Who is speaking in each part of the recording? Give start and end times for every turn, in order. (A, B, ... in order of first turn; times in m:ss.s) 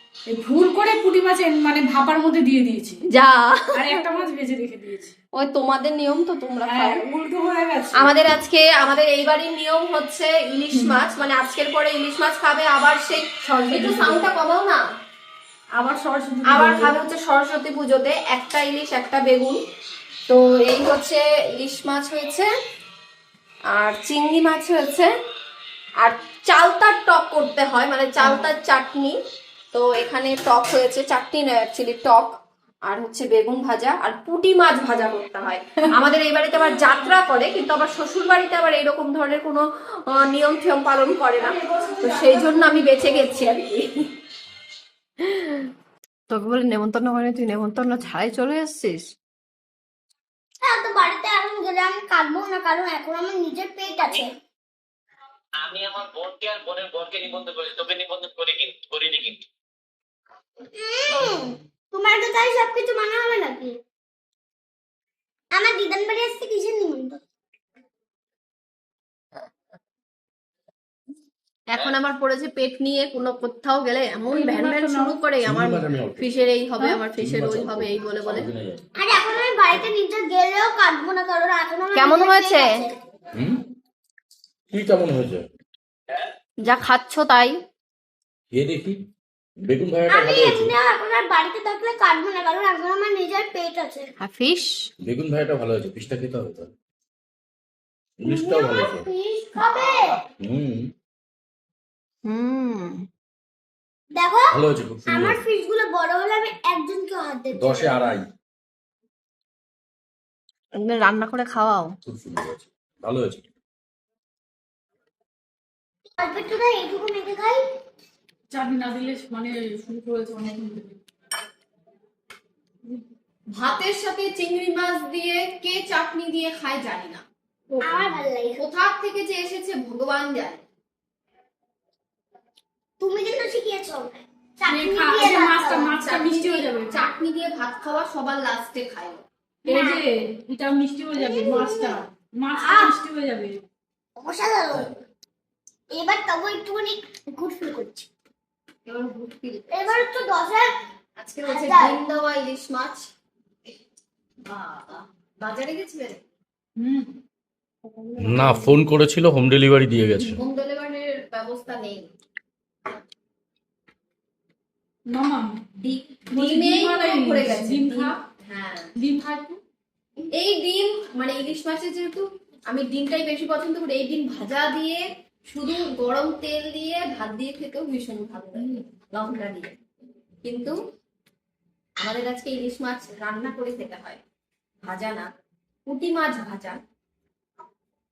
0:00.3-0:03.0 A
0:03.1-0:03.9 B
0:03.7-0:05.1 A
0:05.4-0:07.0 B
0:06.6-0:08.1 A
0:08.0-0:14.8 B
0:13.7-0:14.2 A
0:15.7-0:17.0 A
0:16.5-0:19.6 B
0:20.3-0:22.5 B
0:23.7-0:25.1 B
0:26.0-0:29.2 B
0:29.7-0:32.3 B
0:32.8-0:43.9 B
0:41.4-0:42.6 A
0:46.3-0:49.0 B
0:50.6-0:54.3 C
0:55.6-0:59.4 D
1:00.7-1:03.8 C
1:05.5-1:07.2 C
1:11.7-1:18.5 B
1:14.3-1:15.2 A
1:15.4-1:16.3 E
1:17.1-1:18.8 E
1:19.0-1:22.9 C
1:21.9-1:22.8 B
1:23.3-1:23.6 E
1:24.7-1:25.5 E
1:26.6-1:27.6 B
1:28.5-1:29.0 E
1:29.6-1:30.7 E
1:30.1-1:34.1 C
1:34.2-1:34.9 B
1:35.0-1:36.7 E
1:38.2-1:39.0 E
1:38.2-1:40.2 C
1:40.4-1:40.9 E
1:42.3-1:42.9 B
1:44.1-1:48.1 C
1:44.5-1:45.4 E
1:47.5-1:48.3 E
1:50.8-1:51.9 B
1:52.0-1:53.4 E
1:56.2-1:57.6 C
1:58.5-2:01.0 A
2:03.5-2:07.2 B
2:07.8-2:08.6 C
2:08.6-2:10.6 B
2:13.0-2:15.9 C
2:14.7-2:17.0 A
2:15.7-2:20.0 B
2:19.6-2:23.6 A
2:21.1-2:22.0 C
2:22.6-2:23.0 C
2:24.2-2:25.0 C
2:25.9-2:28.1 C
2:28.9-2:30.0 B
2:29.7-2:30.7 C
2:31.2-2:33.1 B
2:31.4-2:32.0 C
2:34.4-2:36.2 B
2:36.8-2:37.1 A
2:38.0-2:38.5 A
2:38.2-2:40.4 E
2:40.3-2:42.1 B
2:45.1-2:45.5 A
2:45.8-2:48.9 B
2:46.3-2:48.1 A
2:49.0-2:49.6 A
2:50.3-2:59.7 B
3:00.4-3:00.7 B
3:02.0-3:04.2 B
3:04.8-3:05.3 B
3:05.9-3:06.8 B